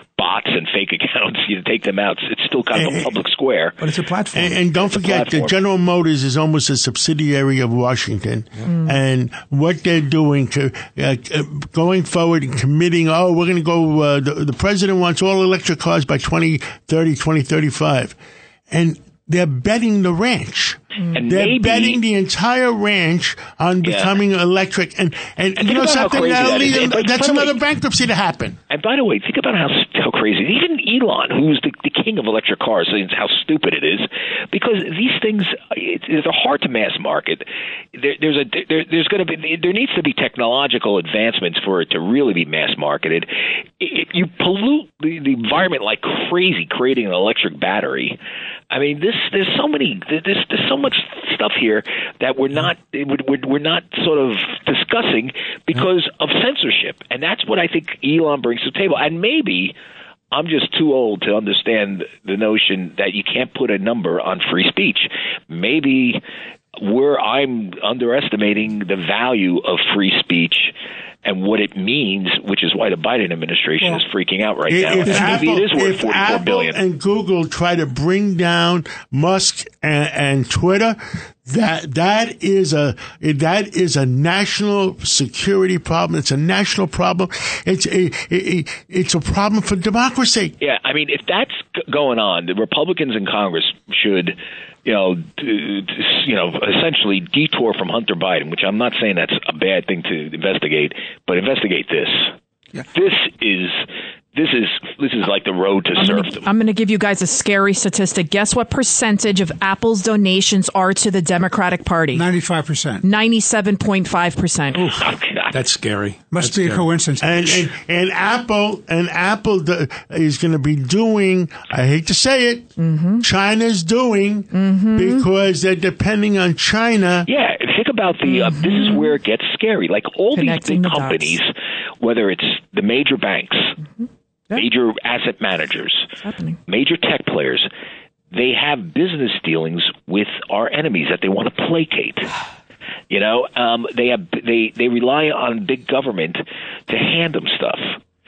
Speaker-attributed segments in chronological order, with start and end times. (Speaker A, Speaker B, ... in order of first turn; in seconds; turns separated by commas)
Speaker A: 0.2-3.8, Speaker B: 2.7-3.1, Speaker C: 3.8-4.5, Speaker B: 4.3-18.2, Speaker A: 4.9-5.5, Speaker B: 18.7-28.6, Speaker A: 21.1-22.0, Speaker A: 23.8-24.1, Speaker A: 25.6-27.6, Speaker A: 28.7-48.2, Speaker A: 48.7-59.7, Speaker A: 60.3-66.2, Speaker A: 66.8-76.8, Speaker B: 74.7-90.5, Speaker A: 90.6-102.3, Speaker A: 102.9-103.8, Speaker A: 104.3-106.5, Speaker D: 106.0-112.2, Speaker E: 112.1-113.0, Speaker D: 113.0-115.0, Speaker C: 114.8-116.9, Speaker A: 115.0-115.5, Speaker E: 116.3-117.7, Speaker B: 117.2-127.3, Speaker D: 122.8-123.2, Speaker D: 124.5-125.2, Speaker A: 127.3-133.8, Speaker D: 128.2-129.1, Speaker D: 130.3-131.4, Speaker A: 134.5-136.1, Speaker D: 136.2-136.6, Speaker A: 136.7-137.7, Speaker A: 138.3-142.3, Speaker A: 143.1-147.9